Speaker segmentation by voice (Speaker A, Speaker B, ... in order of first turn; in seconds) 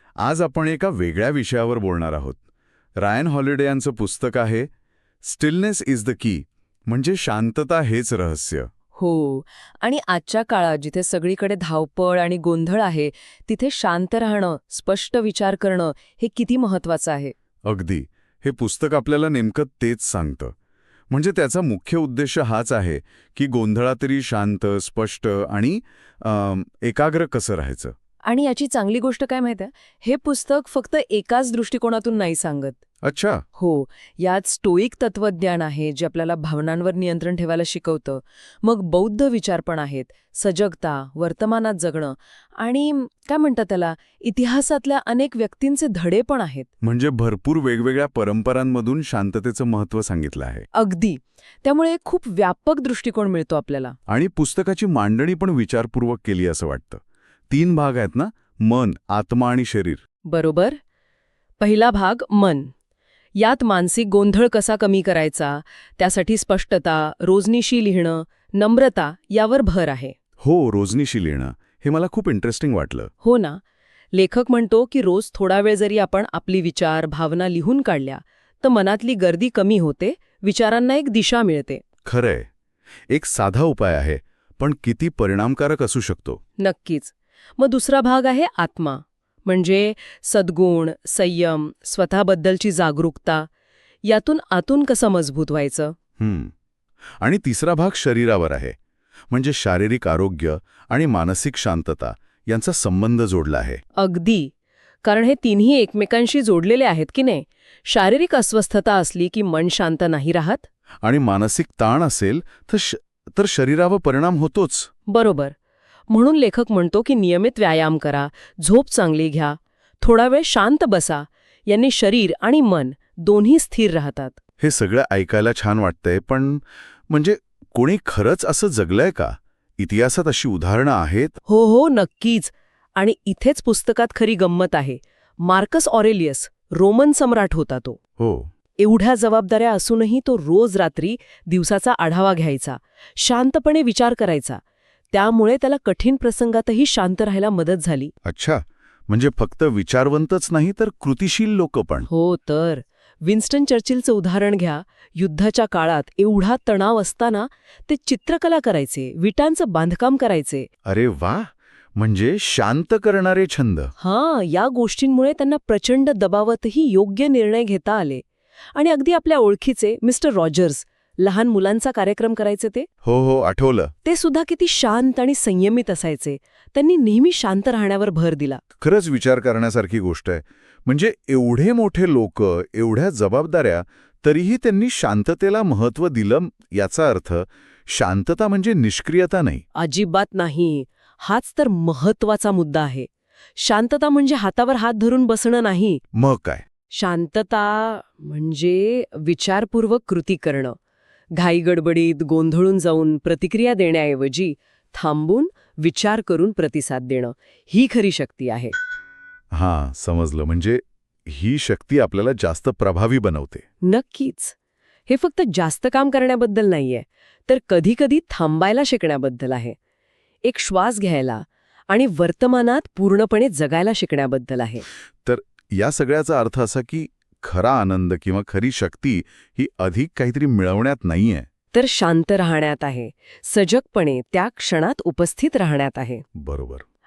Speaker A: 0.2-2.4, 3.0-4.7, 5.2-8.7, 17.7-20.5, 21.1-27.9, 33.0-33.4, 46.8-50.7, 54.1-60.0, 70.4-73.1, 82.0-82.5, 83.1-86.4, 96.2-96.5, 97.2-98.8, 99.3-103.8, 111.0-114.9, 124.6-131.4, 138.2-138.5, 148.2-152.1, 160.9-163.9, 173.0-173.9, 178.8-189.6, 196.1-196.6, 209.5-213.6, 225.2-231.5, 236.3-236.8
Speaker B: 8.9-17.3, 28.2-32.8, 33.6-46.7, 50.7-54.0, 60.3-60.8, 61.6-62.7, 63.4-70.2, 73.2-73.6, 74.1-81.8, 86.6-93.5, 94.0-96.0, 104.0-104.5, 105.0-110.7, 115.1-115.5, 116.1-124.4, 131.5-138.0, 138.8-144.6, 145.1-148.1, 152.1-160.7, 164.0-172.9, 174.1-178.6, 189.8-196.0, 196.9-200.8, 201.3-208.8, 213.8-214.6, 215.1-219.8, 220.4-224.8, 231.7-236.2